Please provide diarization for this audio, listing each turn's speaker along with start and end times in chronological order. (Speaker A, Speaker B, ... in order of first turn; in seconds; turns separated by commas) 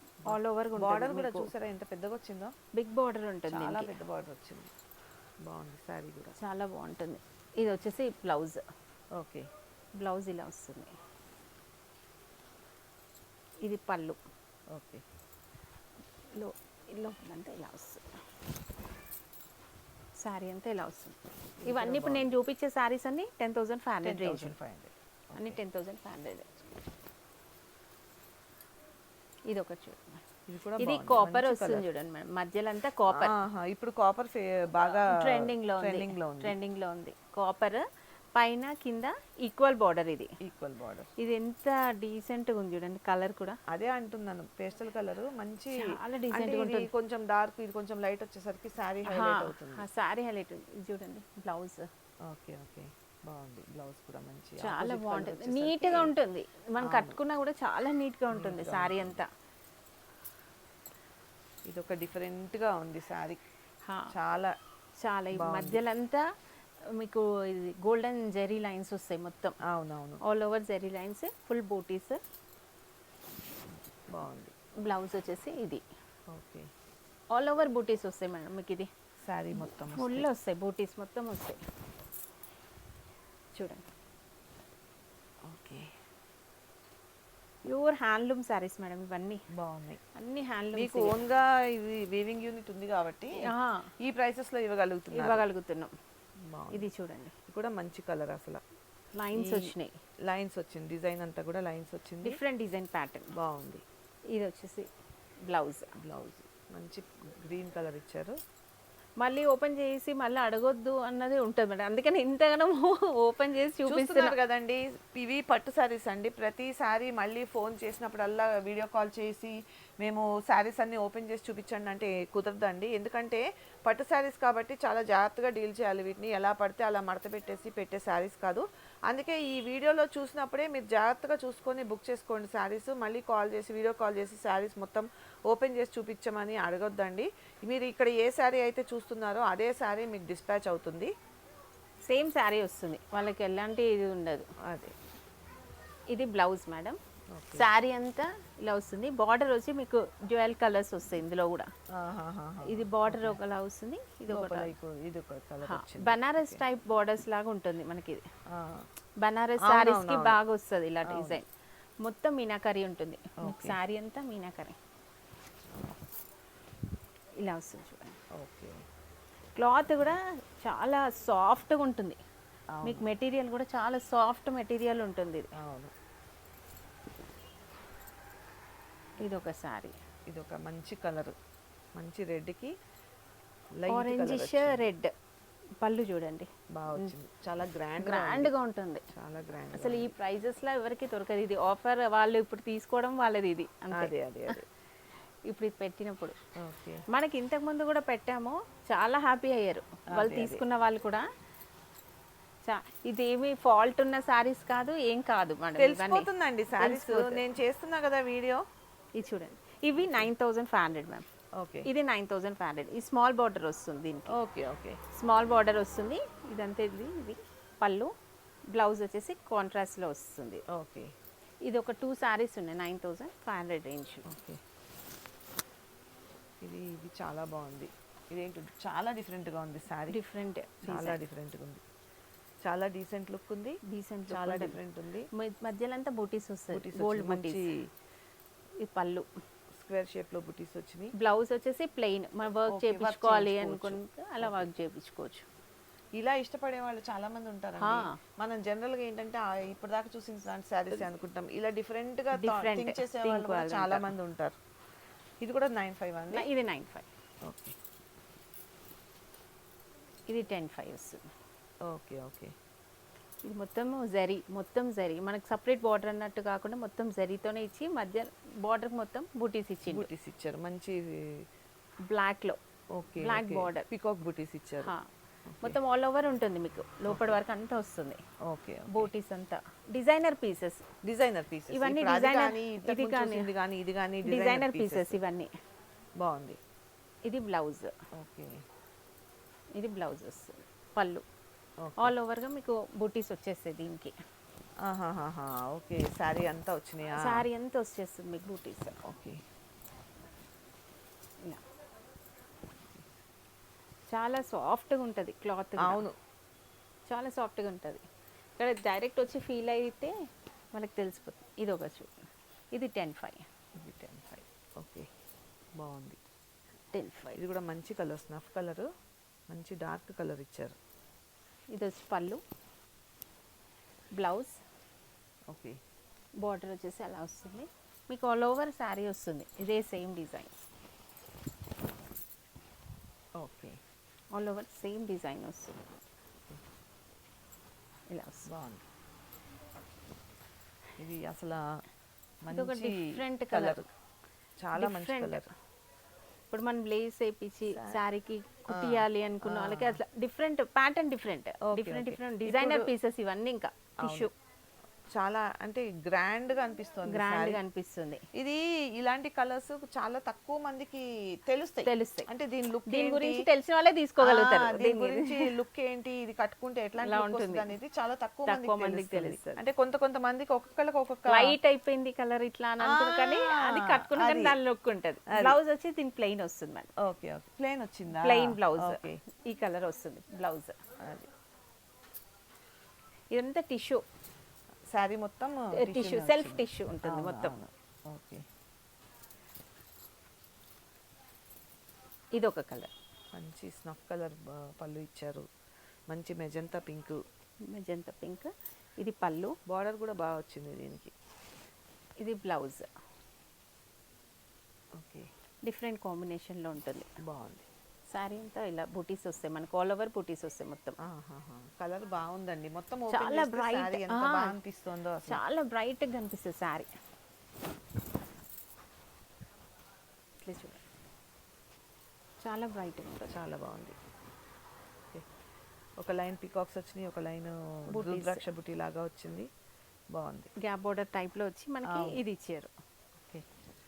Speaker A: 0.2-2.5, Speaker B: 0.2-1.5, Speaker B: 2.7-4.0, Speaker A: 3.5-4.7, Speaker A: 5.4-6.3, Speaker B: 6.4-8.6, Speaker A: 9.1-9.5, Speaker B: 10.0-11.0, Speaker B: 13.6-14.2, Speaker A: 14.7-15.0, Speaker B: 16.4-18.1, Speaker B: 20.1-24.5, Speaker A: 21.6-22.3, Speaker A: 24.0-25.6, Speaker B: 25.4-26.5, Speaker B: 29.5-30.2, Speaker A: 30.5-31.9, Speaker B: 30.8-33.4, Speaker A: 33.1-36.5, Speaker B: 35.0-40.4, Speaker A: 40.4-41.1, Speaker B: 41.2-43.6, Speaker A: 43.7-49.9, Speaker B: 45.7-46.9, Speaker B: 49.0-51.9, Speaker A: 52.2-56.1, Speaker B: 54.6-59.3, Speaker A: 56.8-57.2, Speaker A: 58.3-59.2, Speaker A: 61.6-63.4, Speaker B: 63.9-64.1, Speaker A: 64.1-64.5, Speaker B: 65.0-69.6, Speaker A: 65.3-65.8, Speaker A: 69.6-70.2, Speaker B: 70.2-72.2, Speaker A: 74.1-74.5, Speaker B: 74.8-75.8, Speaker A: 76.3-76.7, Speaker B: 77.3-78.9, Speaker A: 79.2-80.3, Speaker B: 79.5-81.6, Speaker B: 83.5-83.8, Speaker A: 85.4-86.0, Speaker B: 87.6-89.4, Speaker A: 89.5-90.0, Speaker B: 90.1-91.2, Speaker A: 90.8-95.5, Speaker B: 93.3-93.9, Speaker B: 95.1-95.9, Speaker A: 96.4-96.9, Speaker B: 96.7-97.3, Speaker A: 97.5-98.6, Speaker B: 99.1-100.0, Speaker A: 99.3-99.7, Speaker A: 100.2-102.4, Speaker B: 102.2-103.3, Speaker A: 103.3-103.8, Speaker B: 104.3-104.9, Speaker B: 105.5-106.0, Speaker A: 106.0-108.4, Speaker B: 109.2-114.4, Speaker A: 113.8-141.1, Speaker B: 142.0-144.5, Speaker A: 144.6-144.9, Speaker B: 146.1-147.0, Speaker A: 147.3-147.7, Speaker B: 147.5-151.7, Speaker A: 151.9-153.4, Speaker B: 152.6-154.7, Speaker A: 154.3-156.6, Speaker B: 155.6-158.2, Speaker A: 158.5-158.9, Speaker B: 159.2-161.5, Speaker A: 159.6-160.4, Speaker A: 161.0-161.4, Speaker B: 162.0-164.8, Speaker A: 163.4-163.8, Speaker A: 165.7-166.0, Speaker B: 167.4-168.2, Speaker A: 168.3-168.8, Speaker B: 169.6-172.2, Speaker A: 172.7-173.1, Speaker B: 172.8-175.5, Speaker A: 175.5-175.9, Speaker B: 179.2-180.0, Speaker A: 180.3-181.3, Speaker A: 181.9-182.7, Speaker A: 183.8-184.9, Speaker B: 183.9-185.1, Speaker B: 185.8-187.1, Speaker A: 186.7-188.5, Speaker B: 188.0-189.1, Speaker A: 189.1-190.1, Speaker B: 189.7-194.6, Speaker A: 193.9-194.6, Speaker B: 195.5-196.4, Speaker A: 196.6-197.0, Speaker B: 197.1-201.3, Speaker A: 200.1-200.6, Speaker B: 202.7-207.4, Speaker A: 205.8-208.6, Speaker B: 209.2-211.2, Speaker A: 210.0-210.3, Speaker A: 211.6-211.9, Speaker B: 211.8-214.4, Speaker A: 214.3-215.0, Speaker B: 215.1-218.1, Speaker B: 218.7-220.6, Speaker A: 220.7-221.2, Speaker B: 221.6-224.3, Speaker A: 224.2-224.6, Speaker A: 226.6-230.2, Speaker B: 230.1-231.2, Speaker A: 230.8-231.8, Speaker A: 232.6-235.3, Speaker B: 233.8-234.8, Speaker B: 235.3-237.7, Speaker A: 236.7-237.9, Speaker B: 238.8-239.3, Speaker A: 239.7-241.1, Speaker B: 241.2-245.5, Speaker A: 242.7-244.7, Speaker A: 246.2-254.6, Speaker B: 247.8-248.2, Speaker B: 252.3-254.1, Speaker A: 255.4-256.5, Speaker B: 256.3-257.1, Speaker A: 257.4-257.8, Speaker B: 260.3-261.3, Speaker A: 261.8-262.5, Speaker B: 263.4-270.1, Speaker A: 269.9-271.5, Speaker B: 272.1-272.6, Speaker A: 272.9-274.9, Speaker B: 273.2-273.9, Speaker A: 275.5-275.8, Speaker B: 275.6-278.2, Speaker A: 277.1-277.4, Speaker A: 278.4-279.1, Speaker B: 278.9-280.9, Speaker A: 281.0-285.2, Speaker B: 281.7-283.5, Speaker B: 284.2-285.5, Speaker A: 286.2-286.6, Speaker B: 287.2-287.9, Speaker A: 288.1-288.6, Speaker B: 289.7-291.2, Speaker A: 291.8-292.1, Speaker B: 292.0-294.1, Speaker A: 294.8-297.5, Speaker B: 297.1-299.0, Speaker A: 299.0-299.4, Speaker B: 304.1-306.1, Speaker A: 305.8-306.1, Speaker B: 307.1-308.0, Speaker B: 308.6-310.1, Speaker B: 310.7-313.5, Speaker A: 313.8-315.1, Speaker A: 315.8-316.2, Speaker B: 316.9-317.4, Speaker A: 317.3-318.9, Speaker A: 319.5-320.8, Speaker B: 321.7-322.4, Speaker B: 324.1-324.6, Speaker A: 325.5-325.8, Speaker B: 326.4-330.6, Speaker A: 333.4-333.8, Speaker B: 334.3-335.8, Speaker B: 338.1-338.5, Speaker A: 338.5-338.8, Speaker A: 341.0-341.8, Speaker A: 342.4-343.9, Speaker B: 342.5-343.9, Speaker A: 344.6-345.5, Speaker B: 344.8-345.5, Speaker B: 346.5-354.3, Speaker A: 347.7-348.0, Speaker A: 348.7-350.0, Speaker A: 351.6-352.9, Speaker A: 354.0-354.3, Speaker A: 355.1-357.6, Speaker B: 357.1-358.2, Speaker A: 358.3-363.5, Speaker B: 361.8-362.3, Speaker B: 362.9-365.5, Speaker A: 364.2-371.6, Speaker B: 367.0-367.7, Speaker B: 368.5-369.6, Speaker B: 371.3-376.9, Speaker A: 372.8-374.6, Speaker A: 375.3-375.6, Speaker A: 377.0-379.2, Speaker B: 378.1-380.8, Speaker A: 381.0-381.3, Speaker B: 383.3-384.0, Speaker A: 384.9-388.5, Speaker B: 385.7-387.6, Speaker B: 392.3-392.9, Speaker A: 393.3-395.5, Speaker A: 396.1-397.2, Speaker B: 397.6-399.6, Speaker A: 399.7-401.1, Speaker B: 402.2-402.9, Speaker A: 404.9-405.3, Speaker B: 405.6-407.1, Speaker A: 407.2-407.7, Speaker B: 408.1-411.0, Speaker A: 411.0-415.4, Speaker B: 413.1-414.6, Speaker B: 415.2-416.9, Speaker B: 420.4-420.8, Speaker B: 422.4-423.4, Speaker A: 423.3-424.0, Speaker A: 426.0-429.5, Speaker B: 427.9-428.5, Speaker A: 430.1-430.5, Speaker B: 430.6-432.7, Speaker A: 431.8-432.2